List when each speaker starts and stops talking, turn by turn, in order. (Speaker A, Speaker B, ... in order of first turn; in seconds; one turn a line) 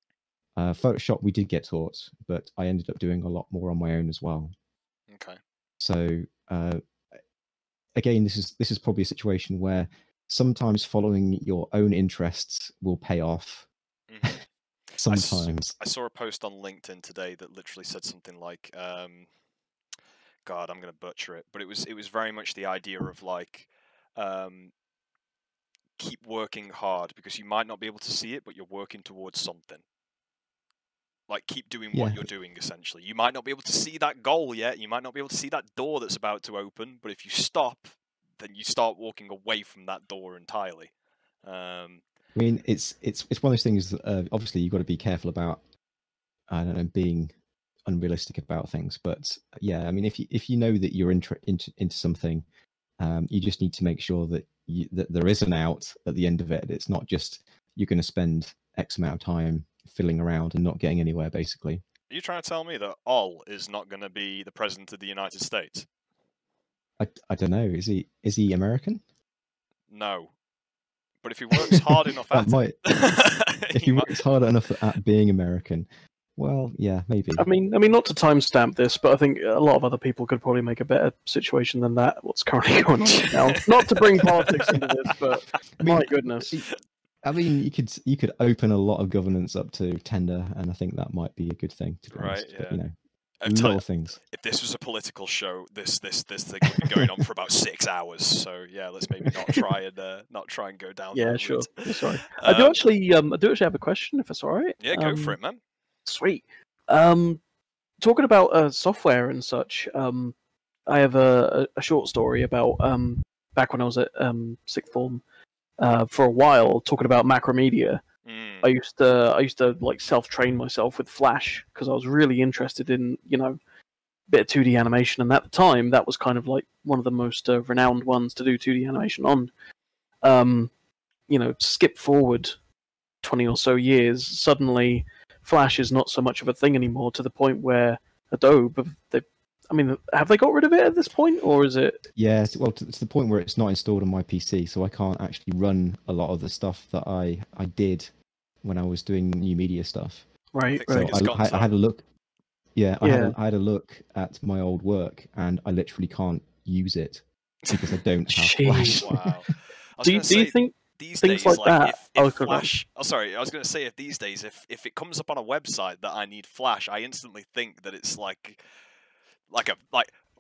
Speaker A: 0.6-4.5
Speaker B: 5.1-5.4
Speaker A: 5.8-6.8
Speaker A: 8.0-13.7
Speaker B: 14.1-14.4
Speaker A: 15.0-15.8
Speaker B: 15.1-19.3
Speaker B: 20.4-24.7
Speaker B: 26.0-29.8
Speaker B: 31.3-40.9
Speaker A: 31.9-32.3
Speaker B: 41.4-42.0
Speaker A: 42.4-45.6
Speaker A: 46.5-47.3
Speaker A: 47.9-52.4
Speaker A: 53.0-61.8
Speaker B: 62.1-65.9
Speaker A: 67.0-69.0
Speaker B: 69.9-70.3
Speaker B: 71.2-74.2
Speaker A: 71.7-72.8
Speaker A: 73.7-77.5
Speaker C: 77.4-86.5
Speaker B: 83.1-84.9
Speaker A: 85.8-86.7
Speaker A: 87.2-92.9
Speaker B: 92.1-92.8
Speaker B: 93.4-102.8
Speaker A: 93.5-94.2
Speaker C: 101.1-105.4
Speaker B: 104.8-105.6
Speaker C: 106.0-107.4
Speaker C: 108.0-110.3
Speaker C: 110.9-115.2
Speaker C: 115.8-118.0
Speaker B: 118.2-118.7
Speaker C: 118.6-123.6
Speaker C: 124.3-129.5
Speaker C: 130.2-130.7
Speaker C: 131.3-132.6
Speaker C: 133.2-142.0
Speaker A: 142.2-148.1
Speaker A: 148.6-150.2
Speaker C: 150.5-151.2
Speaker B: 150.7-151.8
Speaker A: 150.9-152.0
Speaker A: 152.8-159.2
Speaker C: 153.0-153.4
Speaker C: 158.3-159.3
Speaker B: 158.8-168.6
Speaker C: 160.0-162.7
Speaker B: 169.5-170.2